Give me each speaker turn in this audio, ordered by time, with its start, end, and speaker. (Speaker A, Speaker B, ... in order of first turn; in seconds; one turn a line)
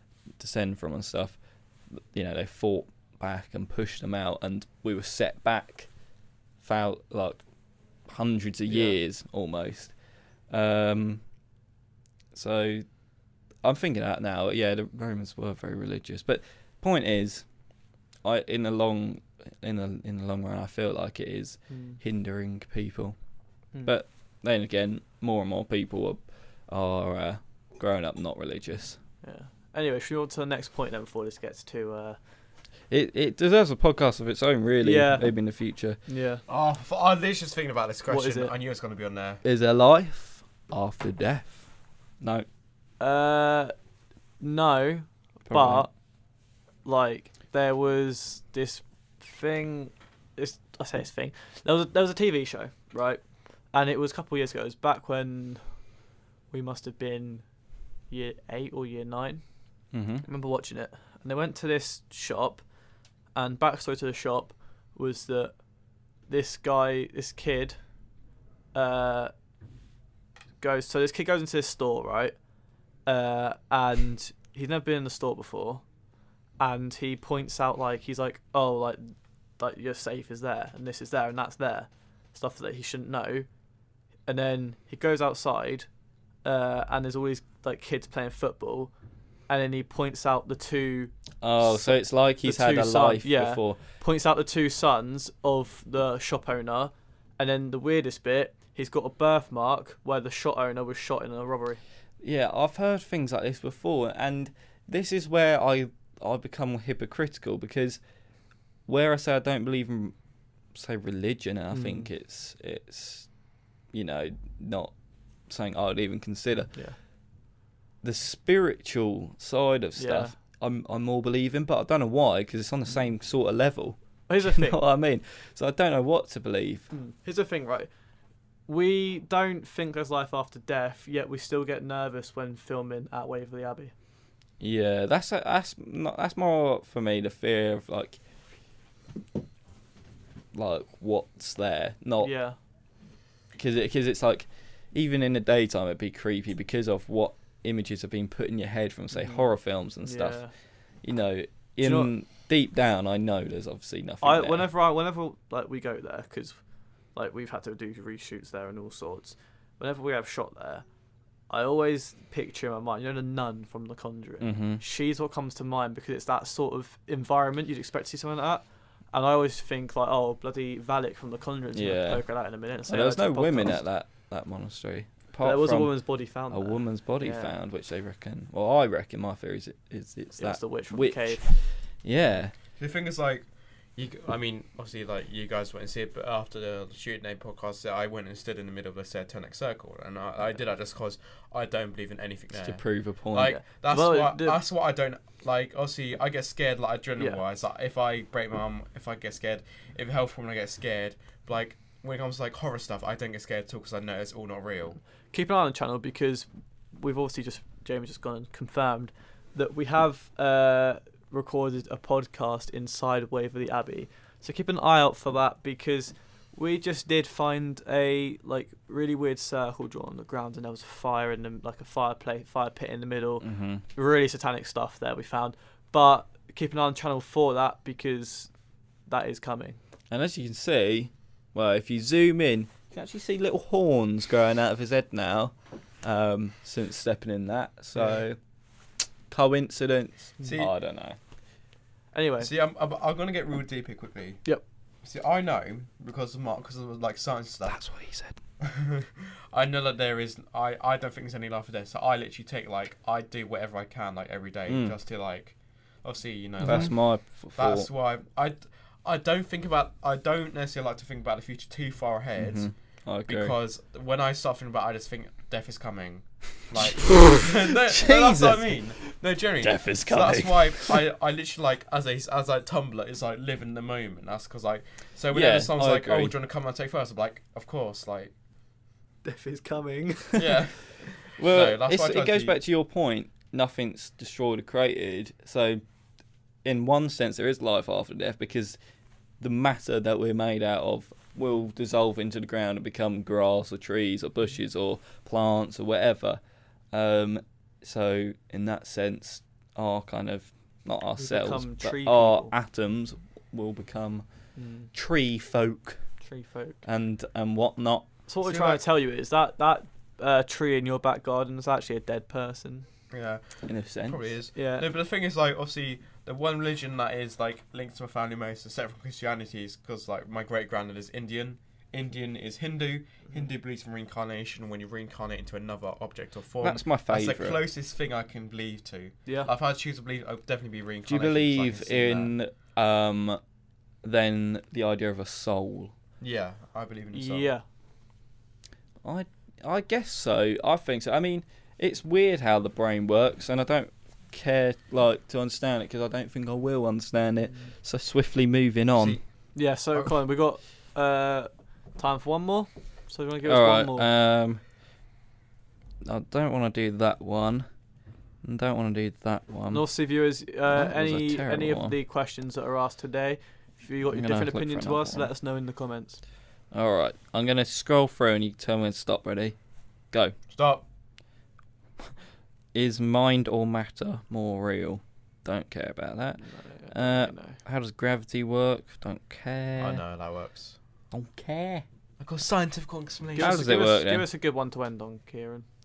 Speaker A: 0.4-5.9
Speaker A: 6.6-11.3
Speaker B: 8.7-9.0
Speaker A: 12.3-12.9
Speaker A: 13.6-17.6
Speaker A: 18.2-29.0
Speaker B: 21.7-22.0
Speaker B: 29.2-32.2
Speaker A: 32.9-36.1
Speaker B: 34.8-36.4
Speaker C: 36.5-39.4
Speaker B: 38.1-38.5
Speaker A: 39.4-42.5
Speaker B: 43.0-43.7
Speaker B: 44.4-56.0
Speaker A: 45.5-45.9
Speaker B: 56.5-62.7
Speaker A: 59.9-60.2
Speaker B: 63.3-69.3
Speaker B: 70.6-75.9
Speaker B: 76.6-83.6
Speaker B: 84.2-88.9
Speaker B: 89.5-101.8
Speaker A: 91.4-93.8
Speaker A: 102.2-108.0
Speaker A: 108.8-110.2
Speaker A: 110.7-117.1
Speaker B: 111.7-112.1
Speaker A: 118.0-126.9
Speaker B: 120.0-120.3
Speaker B: 124.3-124.8
Speaker B: 126.9-128.0
Speaker B: 128.6-133.9
Speaker A: 134.6-138.2
Speaker A: 140.5-142.7
Speaker B: 142.2-142.6
Speaker A: 143.5-154.7
Speaker B: 149.1-150.5
Speaker B: 151.8-152.1
Speaker B: 154.2-160.9
Speaker B: 161.5-173.8
Speaker A: 164.4-164.8
Speaker A: 171.7-182.6
Speaker B: 175.4-177.6
Speaker B: 180.3-181.5
Speaker C: 182.3-205.0
Speaker A: 192.5-193.6
Speaker B: 193.3-194.6
Speaker B: 205.3-229.8
Speaker A: 223.4-223.8
Speaker A: 230.1-241.2
Speaker C: 237.9-238.2
Speaker C: 240.4-240.7
Speaker B: 242.1-242.5
Speaker C: 242.4-278.3
Speaker A: 247.7-248.4
Speaker A: 254.7-254.9
Speaker B: 256.6-256.9
Speaker A: 256.6-257.9
Speaker A: 262.4-263.5
Speaker A: 267.0-269.0
Speaker A: 269.6-271.0
Speaker A: 275.3-276.3
Speaker B: 279.2-280.6
Speaker C: 280.4-282.6
Speaker A: 281.4-285.8
Speaker A: 286.6-288.8
Speaker A: 289.4-306.3
Speaker B: 301.2-302.5
Speaker B: 304.5-304.9
Speaker B: 306.2-306.8
Speaker A: 306.8-308.2
Speaker B: 308.3-312.9
Speaker C: 308.4-308.8
Speaker C: 313.1-332.3
Speaker A: 313.6-314.3
Speaker B: 314.5-314.9
Speaker A: 326.6-327.6
Speaker A: 331.1-333.4
Speaker A: 334.0-335.9
Speaker C: 336.2-337.5
Speaker B: 337.1-337.6
Speaker A: 339.0-349.2
Speaker B: 347.4-347.7
Speaker C: 348.9-350.2
Speaker B: 349.5-354.1
Speaker A: 353.4-354.6
Speaker A: 356.0-357.7
Speaker A: 358.4-360.0
Speaker B: 359.7-366.2
Speaker A: 360.6-361.9
Speaker A: 364.1-365.3
Speaker A: 366.7-370.4
Speaker C: 370.5-370.8
Speaker A: 372.7-380.0
Speaker B: 376.4-377.6
Speaker C: 379.8-380.8
Speaker A: 381.1-381.8
Speaker C: 382.2-383.8
Speaker A: 383.4-384.2
Speaker B: 383.4-385.6